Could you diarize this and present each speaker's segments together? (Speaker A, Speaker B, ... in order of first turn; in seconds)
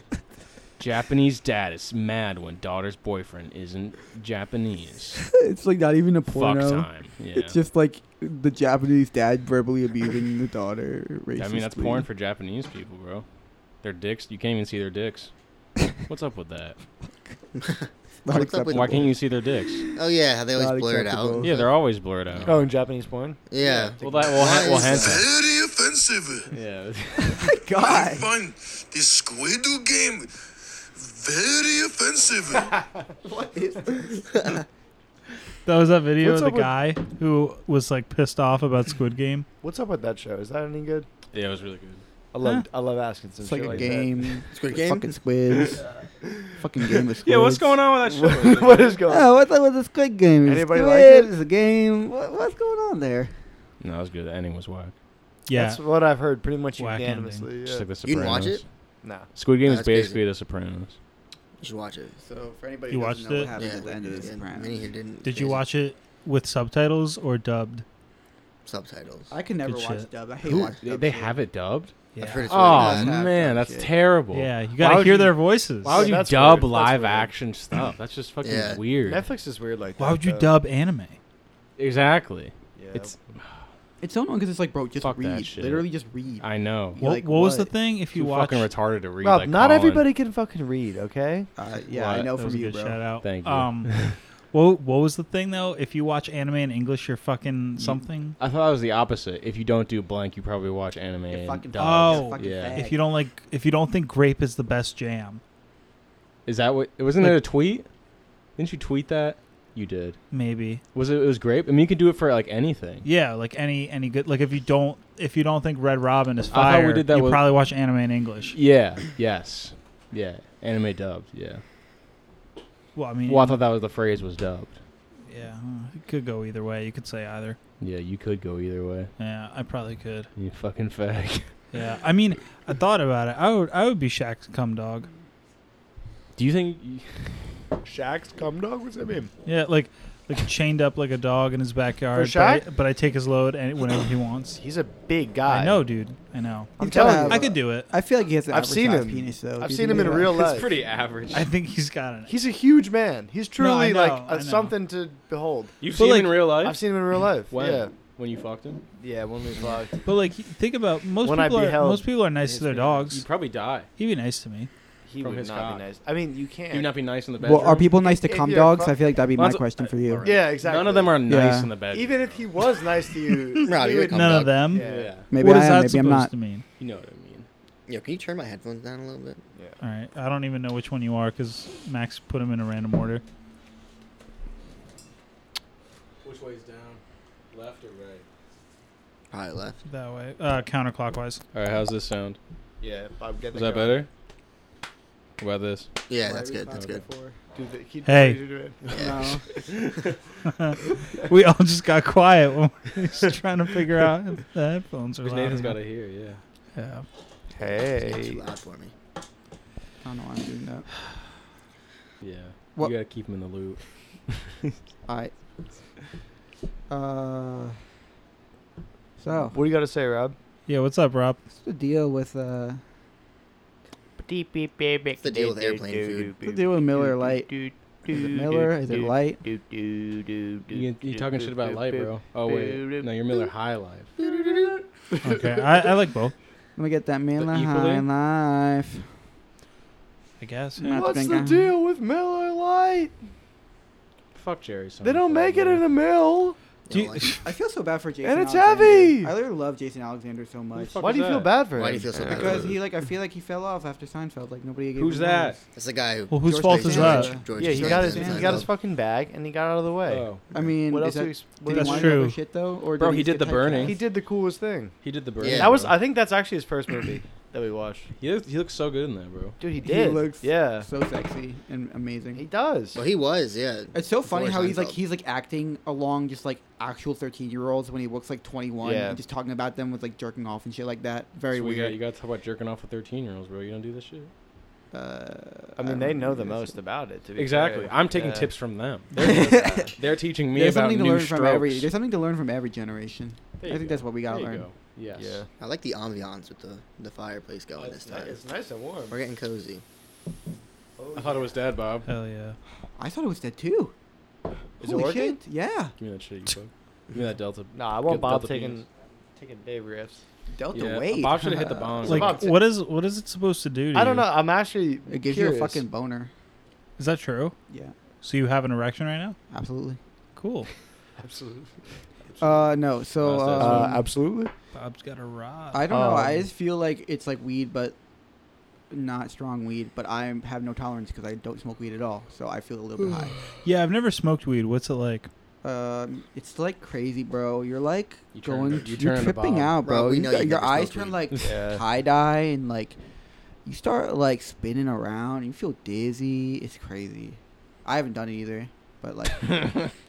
Speaker A: 0.8-5.3, 6.3-7.6, 11.4-13.2, 13.8-15.3, 16.1-16.8, 18.7-19.9, 21.4-22.6, 23.6-25.2, 26.5-27.6, 41.3-42.0, 47.2-49.0, 53.8-54.9, 57.6-58.6, 59.3-61.0, 70.5-71.9, 72.5-74.5, 75.8-79.2, 81.8-83.5, 85.0-85.9, 86.4-87.0, 88.1-90.1, 91.9-92.3, 93.2-94.2, 97.8-102.8, 106.5-107.8, 108.6-110.2, 110.9-113.0, 116.5-117.6, 118.5-121.6, 123.3-124.8, 127.8-129.1, 130.3-131.5, 136.3-137.3, 150.2-151.5, 155.8-158.8, 163.1-163.9, 165.2-165.8, 166.7-167.9, 169.3-172.5, 174.8-175.3, 176.8-177.5, 186.2-187.0, 187.5-188.2, 191.5-192.4, 193.5-194.1, 195.4-195.9, 199.6-200.1, 205.2-206.4, 212.2-214.8, 230.7-234.1, 237.4-238.1, 244.3-245.8, 250.7-251.6, 254.9-255.6, 260.1-260.4, 263.0-264.0, 265.0-265.9, 268.2-269.6, 281.5-284.3, 287.4-291.9, 293.6-295.4, 301.1-302.1, 306.0-308.8, 310.7-312.5, 323.2-324.0, 338.3-339.7
Speaker B: 5.3-12.1, 18.2-19.2, 20.5-21.5, 27.2-28.3, 33.2-34.5, 43.4-45.8, 46.5-47.8, 49.1-53.3, 62.2-64.9, 69.3-71.4, 72.7-73.9, 84.0-87.7, 91.6-93.0, 101.3-103.0, 146.8-150.4, 167.4-170.3, 171.2-171.7, 175.3-176.3, 196.2-197.4, 198.9-199.4, 210.0-210.9, 215.1-215.3, 216.9-217.8, 219.2-219.6, 221.5-222.8, 226.4-227.5, 228.1-229.4, 236.8-239.1, 240.8-241.7, 247.4-251.0, 252.2-255.6, 256.4-258.7, 260.5-264.0, 269.8-272.4, 273.9-282.0, 284.9-286.7, 289.1-289.9, 290.5-294.6, 303.0-303.9, 304.8-305.9, 310.5-312.2, 315.1-316.3, 317.7-317.9, 319.5-320.0, 322.4-324.1, 325.7-327.9, 328.9-333.3, 335.6-343.0, 343.6-349.8
Speaker C: 17.6-19.2, 19.9-21.7, 23.5-25.2, 34.2-34.6, 44.5-45.1, 58.0-58.6, 59.6-60.2, 61.6-62.2, 63.5-65.6, 68.7-69.3, 72.2-73.2, 78.4-78.8, 173.6-174.6, 177.9-179.4, 189.3-189.8, 196.1-197.0, 198.9-199.3, 207.6-208.9, 225.2-226.3, 246.9-247.4, 251.7-252.8, 255.7-258.7, 265.4-265.9, 272.9-275.0, 295.6-298.4, 299.1-299.8, 339.8-341.2
Speaker D: 22.4-24.9, 36.2-36.7, 39.6-41.1, 42.3-44.4, 48.0-49.3, 50.4-51.3, 55.5-58.0, 59.0-59.3, 74.8-77.3, 79.0-80.6, 82.8-83.1, 89.2-91.5, 137.8-139.3, 142.1-142.7, 144.6-145.8, 146.8-147.6, 148.5-150.7, 152.3-155.8, 156.5-157.9, 159.0-160.0, 161.2-163.0, 165.1-166.9, 167.9-169.0, 170.2-171.2, 171.9-175.2, 192.8-194.0, 197.5-199.1, 207.5-208.4, 219.5-220.3, 224.2-233.5, 234.2-235.4, 240.9-243.1, 245.0-246.6, 248.2-249.3, 251.0-252.7, 257.5-262.2, 263.8-264.9, 265.5-268.1, 269.6-270.9, 272.3-273.0, 278.8-279.2, 285.8-288.5, 289.1-289.9, 295.1-295.5, 297.8-299.2, 301.0-301.5, 304.8-305.4, 307.7-310.2, 312.0-312.6, 313.9-315.8, 321.2-322.6, 323.6-324.5, 325.9-326.4, 341.4-341.8
Speaker E: 24.9-26.5, 27.8-30.3, 30.9-32.7
Speaker F: 35.6-39.5, 55.5-55.8, 56.8-57.5, 62.9-63.5, 65.2-67.8, 69.6-70.1, 72.1-72.5, 74.3-76.2, 80.0-81.2, 87.0-88.7, 92.2-94.0, 94.5-98.4, 101.8-105.4, 110.3-110.8, 113.0-118.6, 122.9-123.6, 125.3-127.6, 129.2-130.3, 131.7-135.1, 139.4-144.6, 145.4-147.9, 151.3-152.3, 153.6-154.8, 155.9-156.4, 160.0-163.2, 164.0-164.7, 173.5-176.6, 179.8-183.2, 189.8-191.4, 198.0-198.4, 200.4-205.8, 206.7-207.1, 220.7-221.4, 235.2-236.3, 240.4-241.1, 246.9-247.4, 256.3-257.3, 261.7-262.4, 302.1-302.6, 312.1-314.3, 317.0-317.5, 318.2-319.4, 320.4-320.7, 324.7-325.8, 333.6-335.3